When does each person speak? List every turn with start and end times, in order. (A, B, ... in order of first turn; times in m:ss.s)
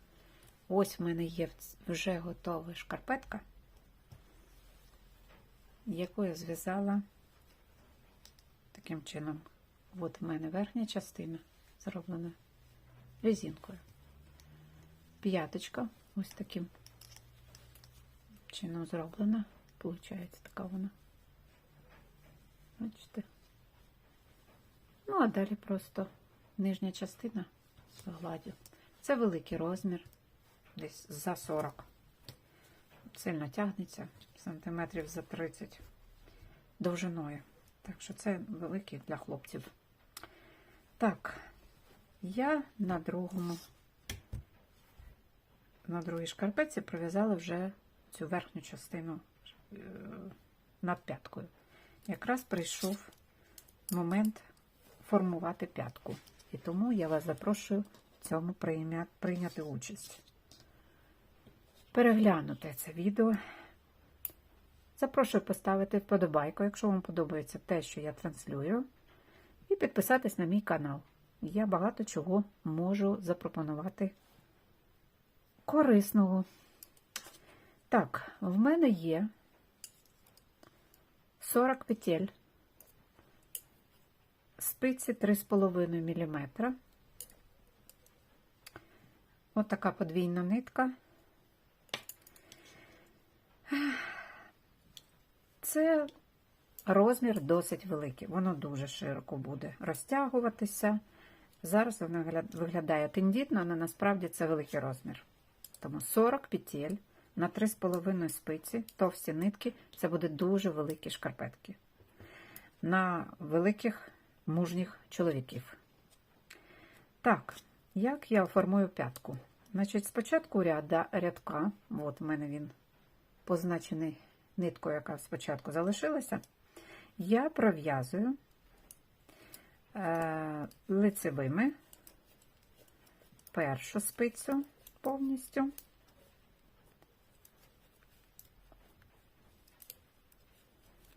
0:00.7-0:03.4 A
0:05.9-0:07.0 A
0:08.7-0:12.4 A
0:13.2-0:13.8 A
0:15.2-0:16.7 A
0:18.5-0:20.9 A
0:22.8-0:23.2 A
0:25.1-0:27.5 A
0:28.0-0:30.1 A
0:30.8-0:31.9 A
0:33.1-0:35.8 A
0:36.8-0:39.7 A
0:41.0-0:41.4 A
0:42.2-0:43.6 A
0:45.8-0:51.5 A
0:52.1-0:53.1 A
0:53.9-0:54.4 A
0:55.0-1:00.2 A
1:01.9-1:03.4 A
1:05.0-1:08.8 A
1:09.7-1:14.1 A
1:15.7-1:16.5 A
1:17.9-1:19.3 A
1:21.4-1:22.3 A
1:24.6-1:26.8 A
1:29.6-1:30.9 A
1:33.7-1:34.2 A
1:35.6-1:36.1 A
1:36.9-1:41.0 A
1:41.6-1:45.2 A
1:45.8-1:51.8 A
1:52.8-1:55.8 A
1:57.2-2:02.7 A
2:03.5-2:06.4 A
2:07.2-2:08.4 A
2:09.9-2:11.7 A
2:13.5-2:15.7 A